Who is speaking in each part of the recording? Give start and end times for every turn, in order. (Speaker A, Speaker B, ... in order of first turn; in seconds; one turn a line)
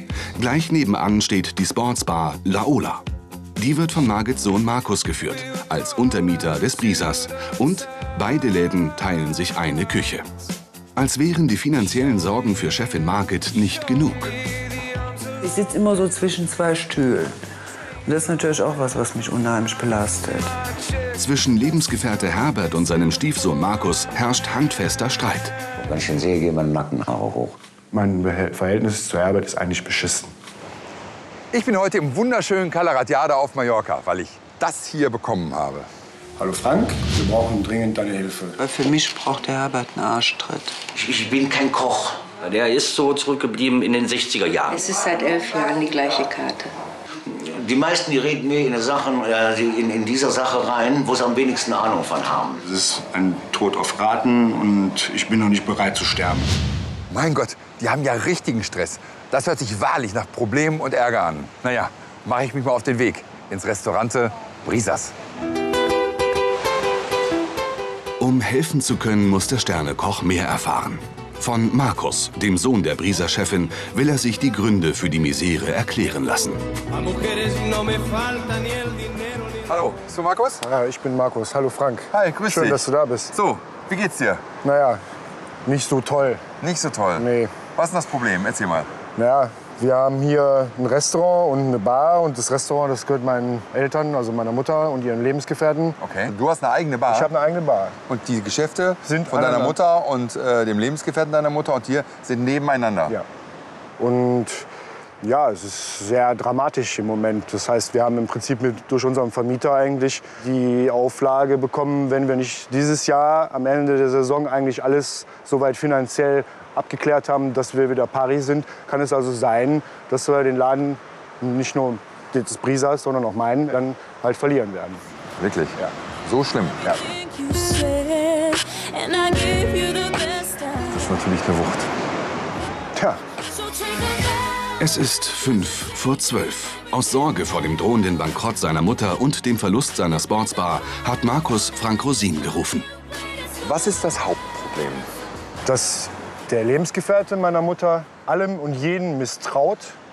Speaker A: 0.3-3.0
Speaker A: 3.6-10.2
Speaker A: 10.9-14.3
Speaker B: 15.4-17.4
Speaker B: 18.0-20.5
Speaker A: 21.1-25.5
Speaker C: 25.8-27.6
Speaker D: 27.9-30.3
Speaker E: 31.5-35.9
Speaker D: 36.4-38.6
Speaker B: 38.6-40.7
Speaker C: 40.9-42.2
Speaker F: 42.4-44.8
Speaker G: 44.7-46.7
Speaker C: 47.3-52.7
Speaker D: 52.7-56.5
Speaker E: 57.1-65.1
Speaker A: 68.2-76.6
Speaker E: 79.6-80.6
Speaker D: 80.6-83.3
Speaker E: 82.1-84.4
Speaker D: 84.6-85.0
Speaker D: 85.7-86.4
Speaker E: 86.6-88.9
Speaker D: 87.2-87.5
Speaker D: 89.1-96.0
Speaker E: 96.0-97.3
Speaker D: 97.1-98.0
Speaker E: 98.1-103.2
Speaker D: 99.0-99.8
Speaker D: 104.0-104.7
Speaker D: 105.2-125.0
Speaker E: 125.4-127.0
Speaker E: 130.8-131.9
Speaker D: 132.9-133.2
Speaker A: 134.8-142.9
Speaker E: 143.6-145.1
Speaker D: 145.6-149.9